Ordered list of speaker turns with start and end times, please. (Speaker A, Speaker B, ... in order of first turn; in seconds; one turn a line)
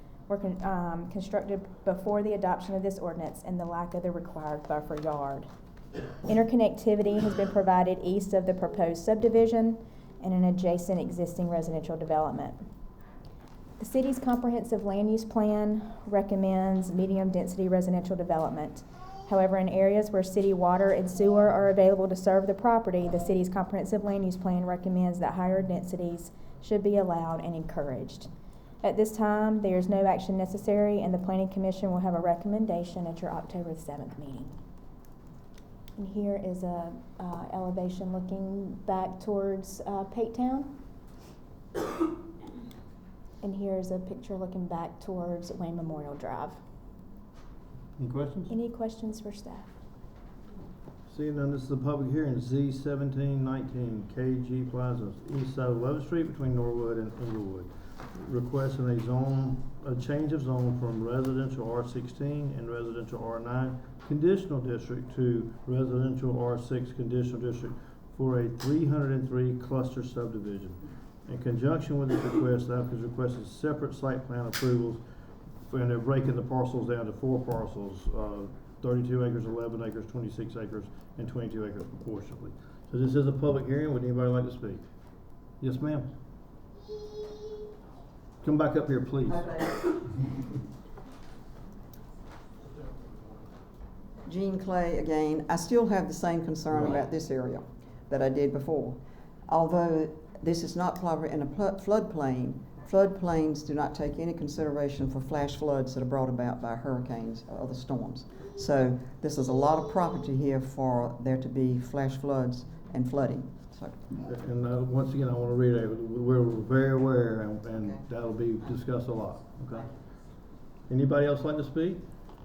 Speaker A: 0.3-5.5
Speaker A: 6.3-12.6
Speaker A: 13.8-28.3
Speaker A: 28.8-34.5
Speaker A: 36.0-40.7
Speaker A: 43.4-46.6
Speaker B: 48.0-48.5
Speaker A: 48.5-49.7
Speaker B: 51.1-75.0
Speaker B: 75.7-84.8
Speaker B: 85.6-86.1
Speaker B: 88.4-89.7
Speaker C: 94.3-114.2
Speaker B: 114.3-119.9
Speaker B: 120.9-122.0